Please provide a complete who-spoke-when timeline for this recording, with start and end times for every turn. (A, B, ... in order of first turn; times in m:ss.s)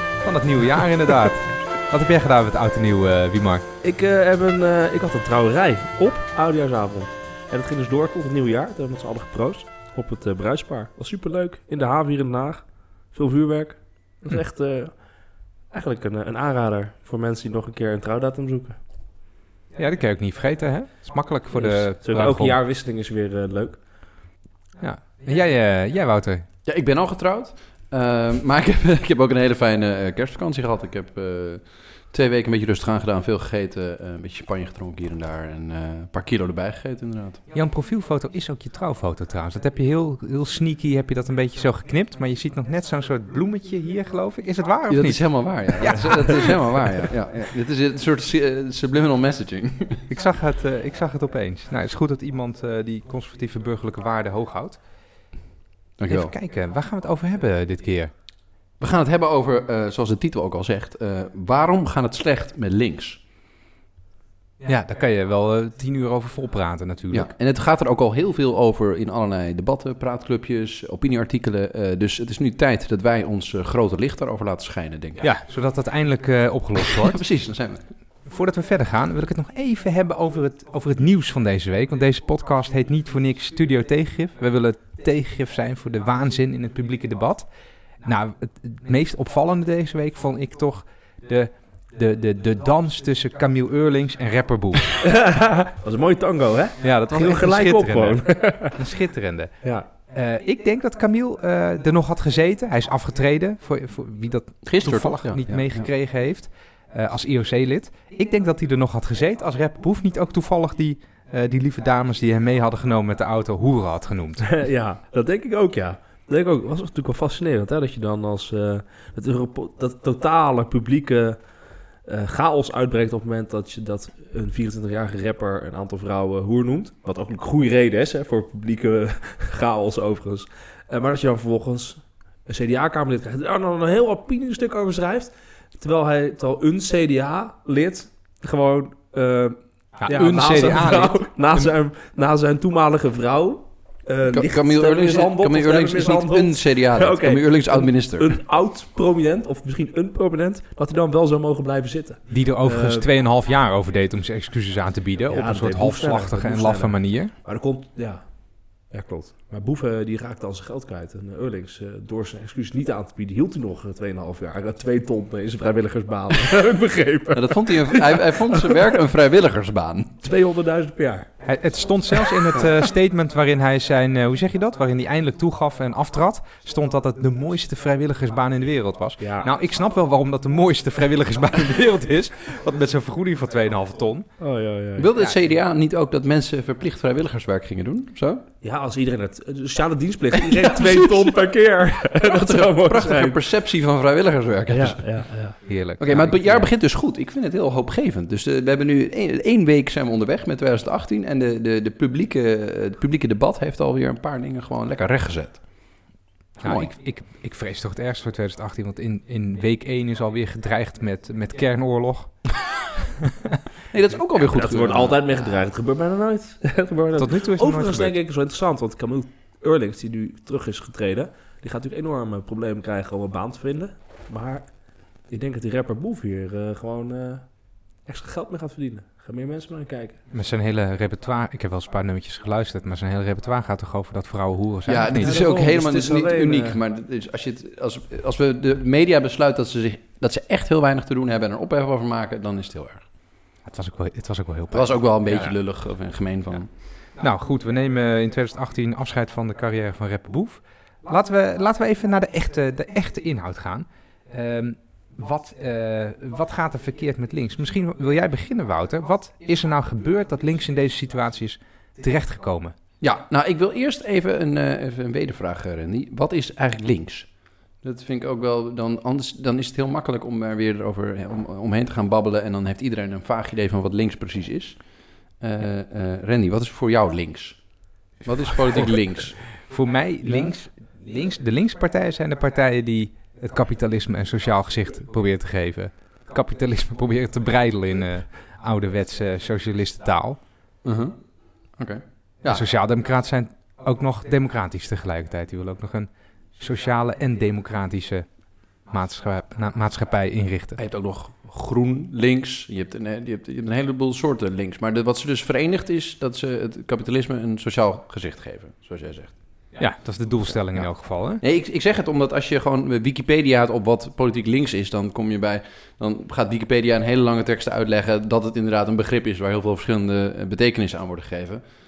0:00.2-0:03.6 A
0:03.8-0:18.8 B
0:19.8-0:22.6 A
0:21.5-0:23.9 B
0:24.8-0:26.5 A
0:26.6-0:37.4 C
0:37.5-0:47.1 A
0:44.9-0:50.0 C
0:50.1-0:55.3 A
0:56.0-0:56.3 C
0:56.1-0:58.1 A
0:58.8-1:03.2 C
1:04.6-1:07.3 A
1:07.1-1:15.3 C
1:15.2-1:17.2 A
1:16.9-1:17.8 C
1:18.2-1:27.5 A
1:28.0-1:34.9 A
1:35.0-1:38.8 B
1:36.8-1:54.6 A
1:44.6-1:45.9 C
1:54.5-2:33.1 B
2:20.0-2:21.7 A
2:24.3-2:28.4 C
2:32.3-2:37.3 A
2:35.3-2:48.8 B
2:47.3-2:50.2 C
2:50.2-2:51.3 B
2:51.4-3:04.3 A
2:59.2-2:59.5 B
3:04.4-3:05.1 B
3:05.0-3:08.4 C
3:08.6-3:13.4 B
3:10.7-3:11.3 C
3:12.2-3:15.3 C
3:14.7-3:15.6 B
3:15.7-3:16.7 A
3:16.0-3:26.0 C
3:26.6-3:32.5 A
3:26.6-3:26.9 C
3:33.9-3:35.2 C
3:34.4-3:50.2 B
3:37.2-3:38.1 A
3:50.3-3:55.4 A
3:54.9-4:03.1 C
3:55.1-3:56.8 B
4:03.6-4:05.6 A
4:04.7-4:06.7 C
4:06.5-4:22.8 A
4:23.0-4:39.4 C
4:38.7-4:50.5 A
4:50.8-4:52.6 C
4:52.4-5:00.8 A
5:00.8-5:09.8 C
5:09.8-5:11.4 A
5:10.7-5:21.6 C